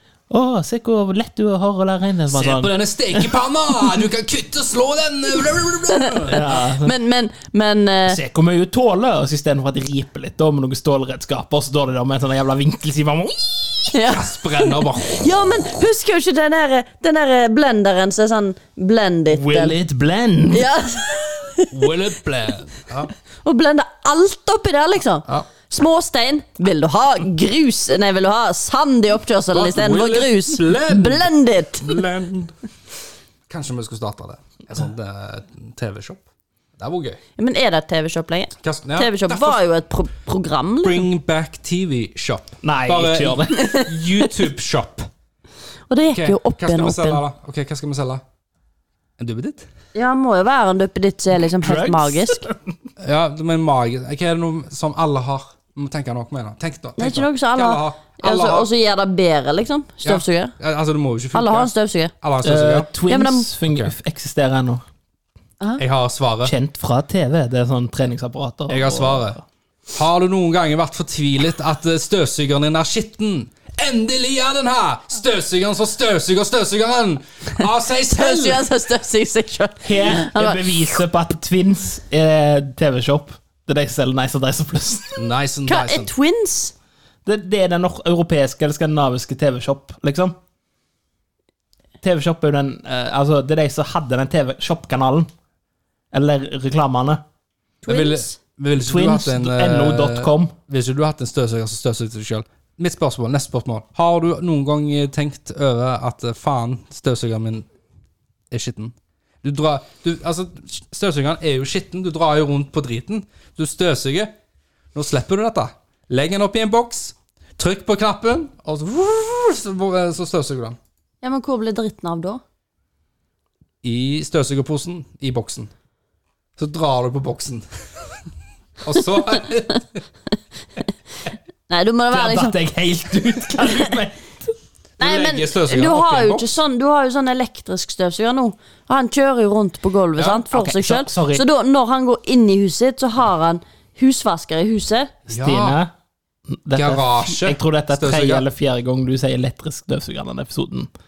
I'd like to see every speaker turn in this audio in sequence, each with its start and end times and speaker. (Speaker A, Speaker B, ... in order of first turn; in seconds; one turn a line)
Speaker A: 0.3-3.3
Speaker B: 2.3-6.5
Speaker C: 5.9-8.2
Speaker A: 6.3-6.9
Speaker A: 8.1-13.9
Speaker C: 13.9-19.8
Speaker B: 14.1-15.2
Speaker A: 19.3-20.7
Speaker C: 20.5-21.7
Speaker B: 21.7-23.1
Speaker C: 23.4-32.0
Speaker B: 29.5-32.5
Speaker B: 33.5-36.2
Speaker B: 36.8-37.2
Speaker C: 37.4-41.0
Speaker B: 38.6-39.6
Speaker B: 40.8-45.1
Speaker A: 42.6-43.6
Speaker C: 43.5-43.9
Speaker C: 45.9-47.2
Speaker B: 46.1-48.2
Speaker B: 49.2-49.7
Speaker C: 49.9-52.5
Speaker A: 51.5-52.6
Speaker B: 53.0-58.7
Speaker C: 57.0-60.5
Speaker B: 60.0-62.9
Speaker C: 61.3-62.1
Speaker A: 62.4-64.8
Speaker C: 63.1-63.5
Speaker B: 63.7-63.9
Speaker B: 65.8-66.5
Speaker A: 66.4-69.3
Speaker B: 68.7-69.4
Speaker B: 69.9-78.6
Speaker C: 78.1-81.0
Speaker A: 79.8-85.2
Speaker B: 85.2-86.1
Speaker C: 85.7-86.7
Speaker A: 87.2-90.3
Speaker A: 92.0-95.3
Speaker A: 96.1-97.2
Speaker C: 97.8-98.4
Speaker B: 97.8-107.7
Speaker A: 98.8-100.5
Speaker B: 108.5-114.3
Speaker B: 114.9-120.8
Speaker C: 121.2-122.4
Speaker B: 123.8-125.7
Speaker B: 126.6-128.1
Speaker B: 128.8-130.0
Speaker C: 131.7-132.6
Speaker A: 132.1-134.3
Speaker B: 135.0-136.5
Speaker C: 135.0-145.1
Speaker B: 140.2-140.4
Speaker A: 140.5-141.4
Speaker A: 145.3-145.9
Speaker B: 145.3-145.8
Speaker A: 146.5-150.9
Speaker B: 146.7-148.4